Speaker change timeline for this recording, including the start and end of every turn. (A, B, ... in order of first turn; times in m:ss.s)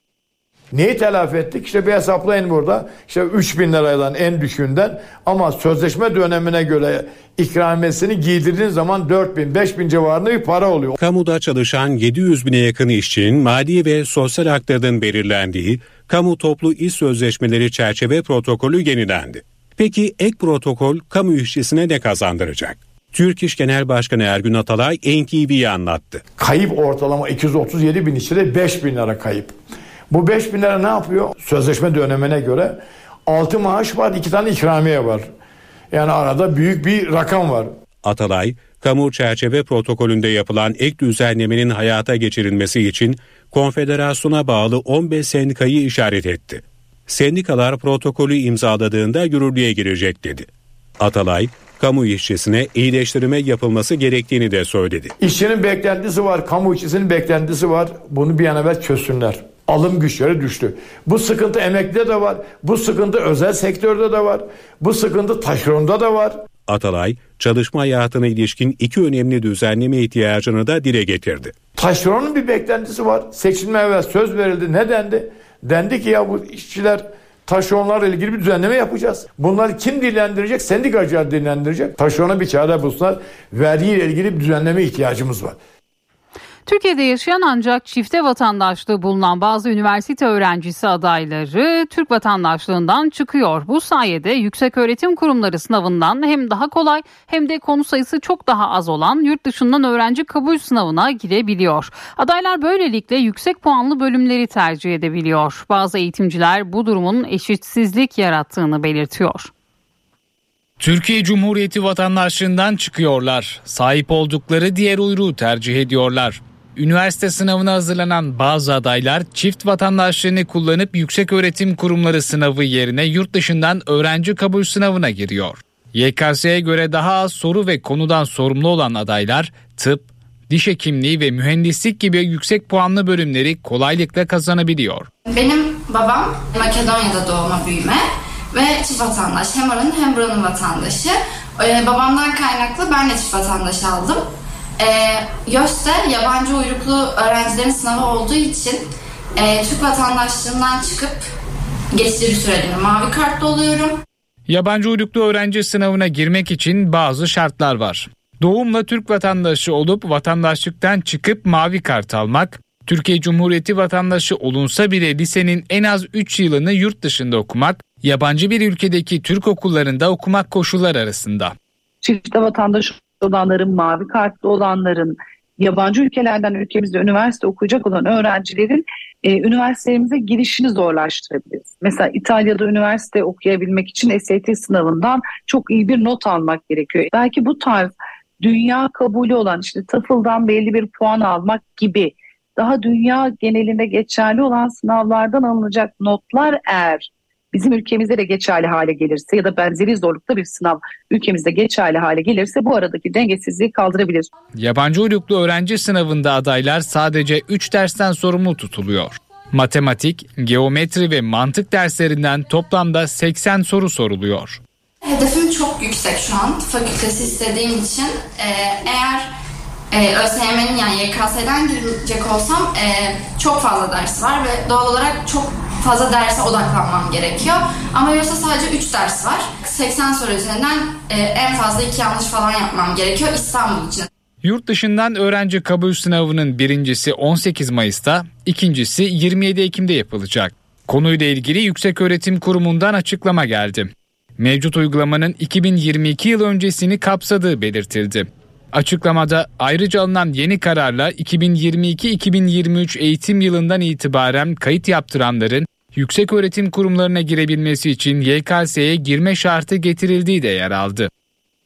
0:00.7-0:11.0 A
0:11.0-0:26.2 B
0:26.4-0:29.6 A
0:30.1-0:35.3 A
0:35.9-0:37.7 A
0:38.0-0:50.5 B
0:51.0-0:55.1 B
0:55.2-1:06.4 A
1:06.7-1:11.6 B
1:11.8-1:25.6 A
1:26.7-1:49.5 C
1:50.8-2:15.1 D
2:15.3-2:24.2 E
2:24.8-2:28.8 E
2:29.4-2:31.2 E
2:31.9-2:34.0 E
2:34.5-2:51.6 D
2:52.0-3:24.3 F
3:24.6-3:34.6 D
3:35.0-3:39.3 E
3:39.9-3:54.1 E
3:54.4-4:21.1 D